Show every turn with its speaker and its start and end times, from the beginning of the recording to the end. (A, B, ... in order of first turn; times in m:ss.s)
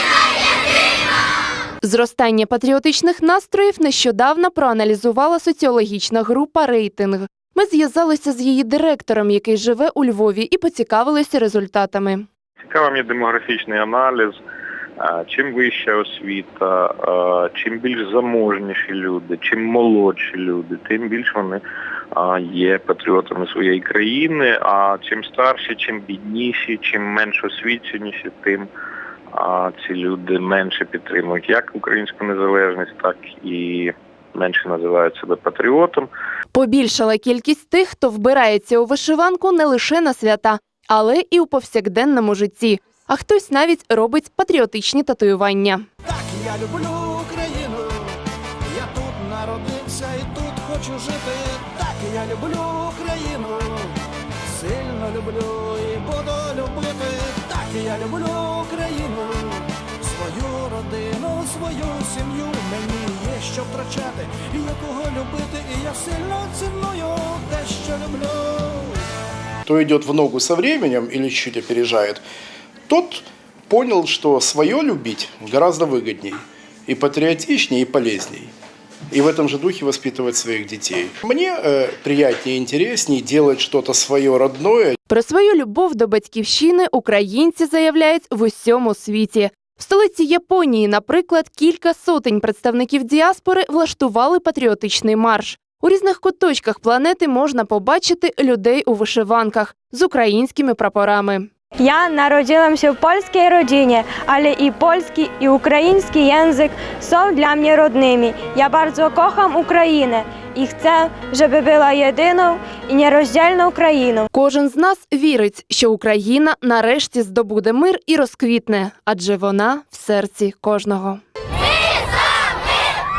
0:01.8-0:12.3 A
0:12.7-0:14.4 B
0:15.0-0:21.6 B
0:22.2-0:28.7 B
0:29.3-0:36.1 B
0:36.5-0:45.9 A
0:46.1-0:48.2 C
0:48.7-0:53.9 C
0:54.5-1:08.9 C
1:09.7-1:12.2 D
1:12.9-1:18.5 D
1:19.1-1:25.0 D
1:25.1-1:41.5 A
1:41.8-1:54.3 E
1:54.3-2:01.2 A